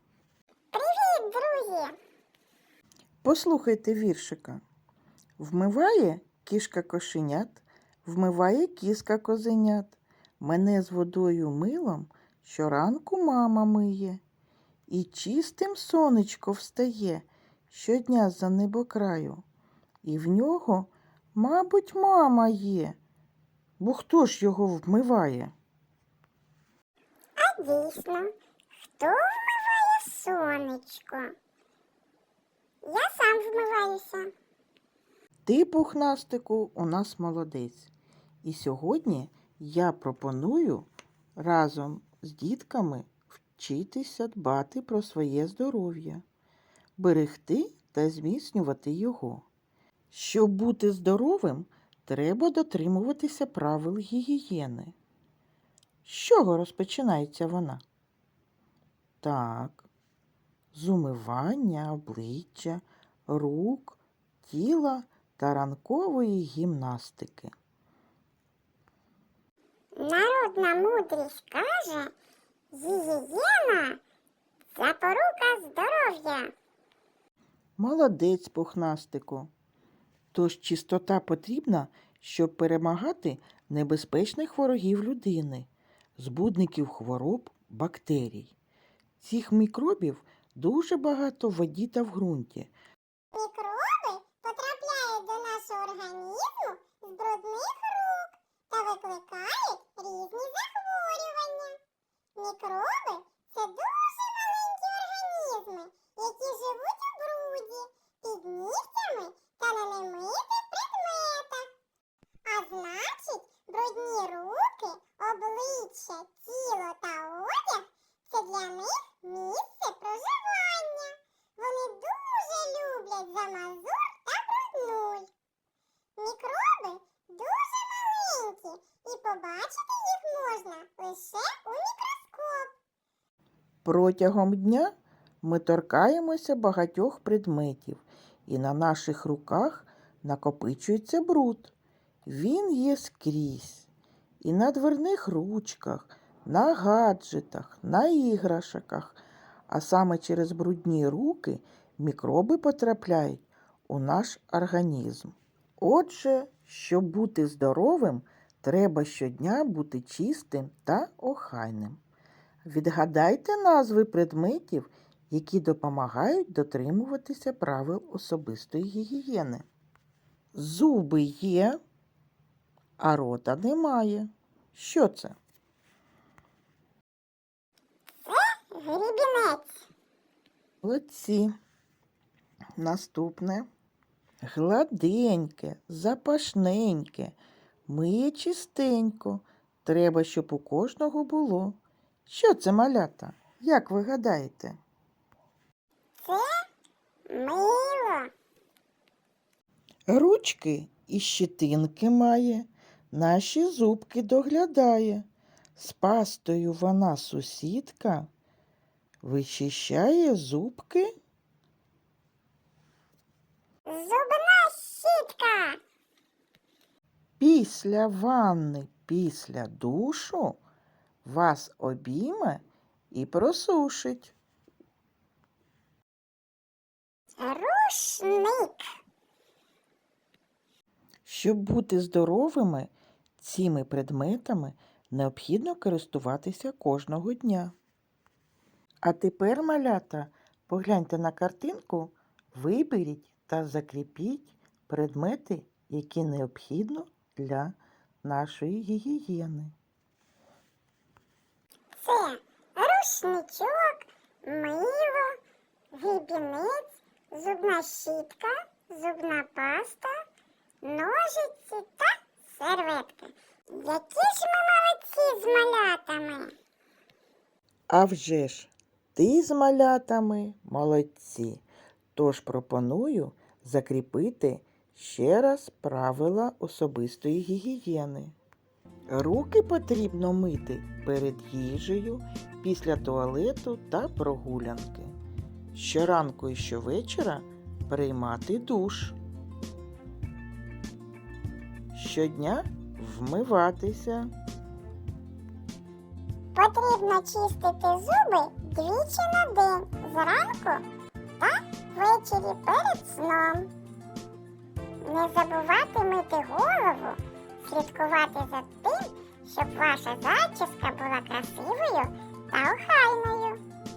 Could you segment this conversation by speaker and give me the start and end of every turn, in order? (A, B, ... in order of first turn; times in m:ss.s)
0:00.7-0:01.9 A
0:03.2-0:04.6 B
0:05.4-0:14.2 B
0:14.9-0:19.4 B
0:20.0-0:23.0 B
0:23.8-0:25.5 B
0:27.4-0:28.3 A
0:29.0-0:31.3 A
0:32.8-0:34.3 A
0:35.4-0:37.9 B
0:38.4-0:40.9 B
0:41.4-0:46.2 B
0:47.0-0:49.4 B
0:50.1-0:54.9 B
0:56.0-0:57.8 B
0:59.2-0:59.9 B
1:00.7-1:07.5 B
1:10.0-1:12.1 A
1:12.7-1:14.0 A
1:14.7-1:16.5 A
1:17.8-1:19.5 B
1:20.3-1:28.5 B
1:29.2-1:32.7 B
1:33.3-1:41.8 A
1:42.4-1:51.7 A
1:52.4-2:05.3 A
2:06.2-2:12.8 A
2:13.8-2:21.7 B
2:22.2-2:23.9 B
2:24.4-2:42.0 B
2:42.6-2:49.6 B
2:50.5-2:51.8 B
2:53.0-2:55.3 B
2:58.2-2:59.7 A
3:00.8-3:01.5 B
3:02.8-3:03.7 B
3:04.4-3:07.4 B
3:07.9-3:14.8 B
3:16.2-3:16.5 A
3:17.3-3:18.3 A
3:20.1-3:25.2 B
3:25.8-3:28.3 B
3:29.2-3:31.1 B
3:33.9-3:35.8 A
3:37.4-3:40.6 B
3:41.2-3:44.3 B
3:47.4-3:48.9 A
3:51.2-3:57.7 B
3:59.0-4:09.7 B
4:12.0-4:15.4 A
4:15.9-4:20.1 A
4:20.8-4:26.5 A
4:27.9-4:38.3 B
4:39.1-4:45.1 B
4:45.7-4:49.2 B
4:51.9-4:54.3 B
4:56.5-5:00.8 A
5:01.4-5:03.7 A
5:05.0-5:13.6 A